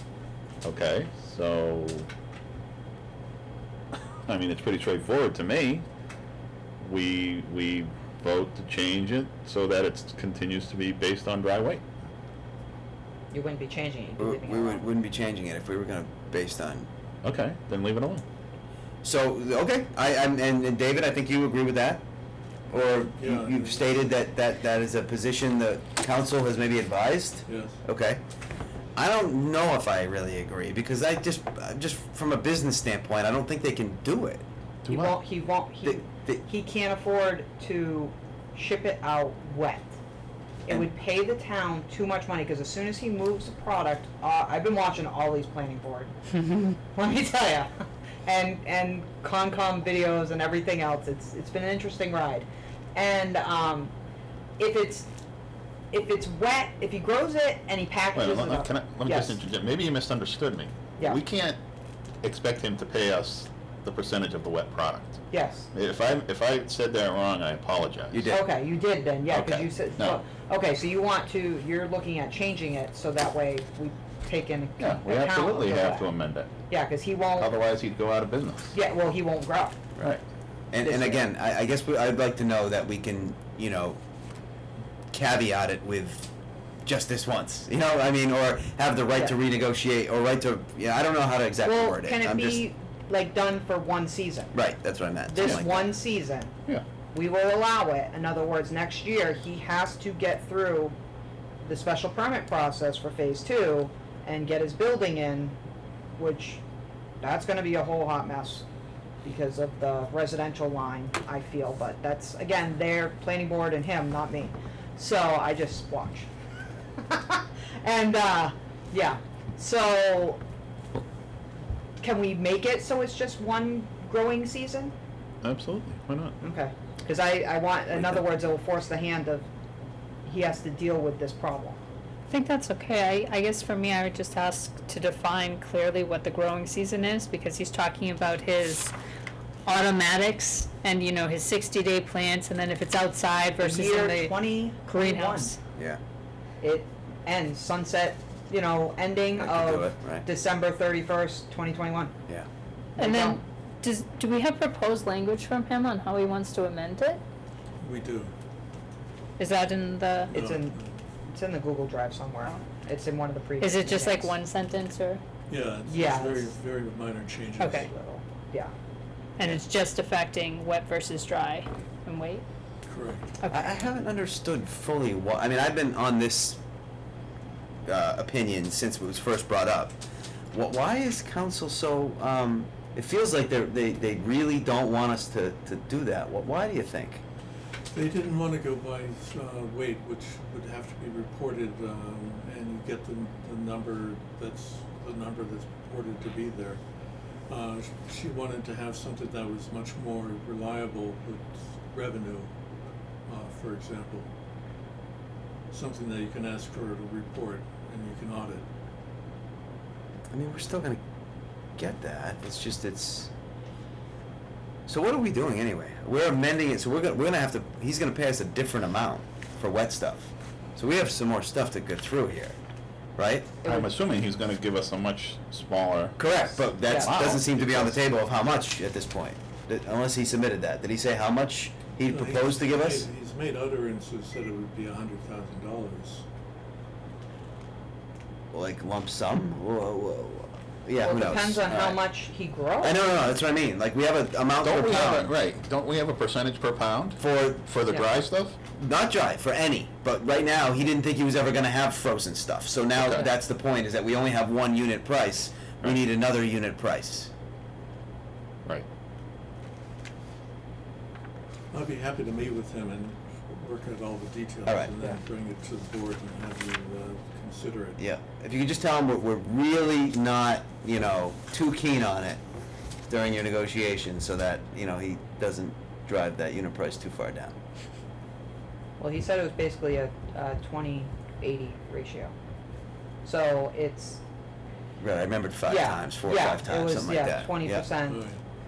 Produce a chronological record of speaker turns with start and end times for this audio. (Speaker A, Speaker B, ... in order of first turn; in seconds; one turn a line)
Speaker A: 0.6-2.1
Speaker A: 4.3-5.9
Speaker A: 6.8-11.8
Speaker B: 13.3-14.8
Speaker C: 14.2-16.9
Speaker A: 17.2-18.2
Speaker C: 19.0-22.0
Speaker C: 22.7-28.2
Speaker D: 23.2-24.1
Speaker D: 27.5-27.8
Speaker C: 29.0-34.4
Speaker B: 34.9-40.0
Speaker C: 35.9-36.4
Speaker B: 40.7-47.7
Speaker B: 48.2-53.9
Speaker B: 54.6-55.1
Speaker B: 55.9-59.4
Speaker A: 58.2-61.6
Speaker B: 61.0-61.2
Speaker A: 62.2-65.2
Speaker B: 65.3-65.7
Speaker A: 65.7-68.3
Speaker C: 68.1-68.4
Speaker B: 68.3-76.1
Speaker A: 69.3-70.2
Speaker A: 74.8-76.5
Speaker B: 76.7-77.5
Speaker A: 77.4-78.8
Speaker B: 78.7-79.8
Speaker C: 80.7-84.0
Speaker B: 80.8-81.3
Speaker C: 85.1-86.3
Speaker C: 86.9-92.6
Speaker B: 89.1-89.4
Speaker B: 91.6-94.5
Speaker C: 94.5-95.9
Speaker B: 95.3-96.5
Speaker B: 97.1-101.0
Speaker B: 101.6-105.5
Speaker B: 106.2-106.6
Speaker B: 107.2-108.7
Speaker B: 109.2-116.3
Speaker B: 117.0-120.4
Speaker B: 122.0-124.9
Speaker A: 125.4-126.3
Speaker B: 126.4-129.5
Speaker B: 130.2-131.8
Speaker E: 132.3-138.9
Speaker E: 139.7-145.6
Speaker B: 143.6-145.5
Speaker B: 146.6-152.1
Speaker C: 149.4-150.2
Speaker B: 153.0-153.4
Speaker E: 153.0-157.2
Speaker D: 157.8-158.3
Speaker E: 159.4-160.3
Speaker B: 160.3-160.8
Speaker D: 160.3-161.0
Speaker B: 161.3-164.3
Speaker E: 163.6-165.2
Speaker D: 165.5-167.9
Speaker B: 165.9-166.5
Speaker E: 167.6-167.9
Speaker B: 167.6-168.7
Speaker E: 169.4-172.4
Speaker D: 172.9-173.3
Speaker E: 173.4-173.7
Speaker C: 173.5-176.6
Speaker C: 177.9-179.9
Speaker C: 180.5-187.2
Speaker D: 187.9-196.8
Speaker D: 197.5-202.6
Speaker D: 203.3-204.3
Speaker D: 205.7-208.7
Speaker C: 210.3-211.0
Speaker C: 211.8-213.3
Speaker C: 214.9-222.6
Speaker C: 223.2-223.6
Speaker A: 223.6-226.2
Speaker C: 226.2-233.1
Speaker B: 226.5-227.2
Speaker A: 226.9-227.9
Speaker D: 232.1-236.2
Speaker C: 238.5-242.0
Speaker B: 241.0-243.0
Speaker C: 242.8-245.3
Speaker A: 244.6-248.6
Speaker C: 247.2-247.6
Speaker C: 248.8-257.3
Speaker A: 253.0-253.2
Speaker D: 261.7-268.0
Speaker C: 264.7-264.9
Speaker C: 268.0-272.4
Speaker C: 273.1-277.6
Speaker B: 279.0-282.3
Speaker B: 283.2-284.2
Speaker C: 285.0-287.9
Speaker B: 285.7-288.2
Speaker D: 288.1-288.4